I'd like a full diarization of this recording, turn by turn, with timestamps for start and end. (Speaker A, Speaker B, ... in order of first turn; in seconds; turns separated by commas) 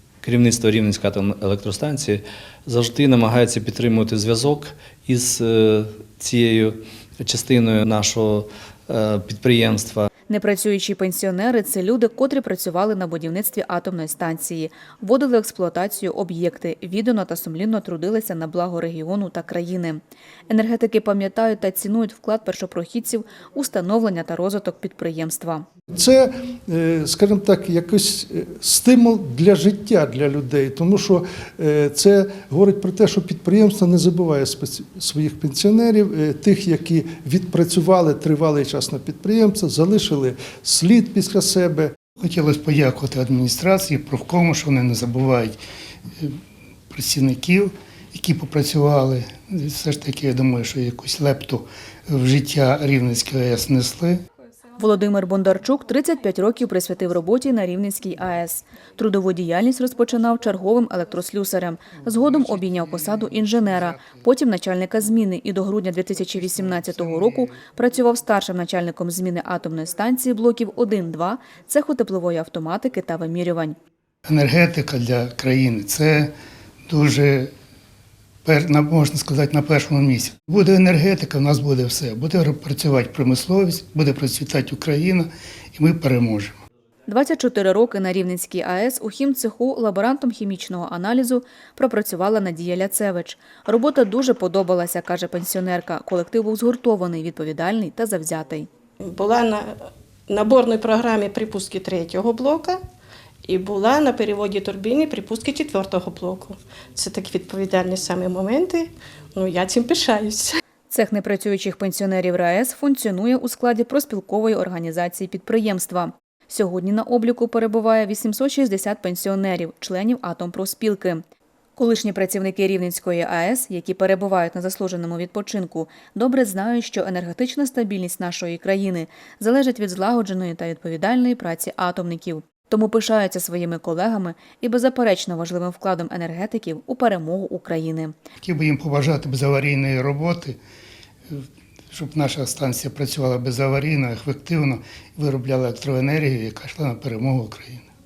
Speaker A: 0.2-10.1, Speaker B: 10.3-25.6, Speaker C: 25.9-41.9, Speaker D: 42.2-45.6, Speaker D: 46.9-54.2, Speaker B: 54.8-73.8, Speaker D: 74.3-76.3, Speaker D: 76.9-77.5, Speaker D: 78.4-86.5, Speaker B: 87.1-98.7, Speaker E: 99.1-99.7, Speaker E: 100.3-102.8, Speaker E: 103.5-110.6, Speaker B: 110.9-121.2, Speaker B: 121.8-138.2, Speaker D: 138.4-140.6, Speaker D: 141.3-147.9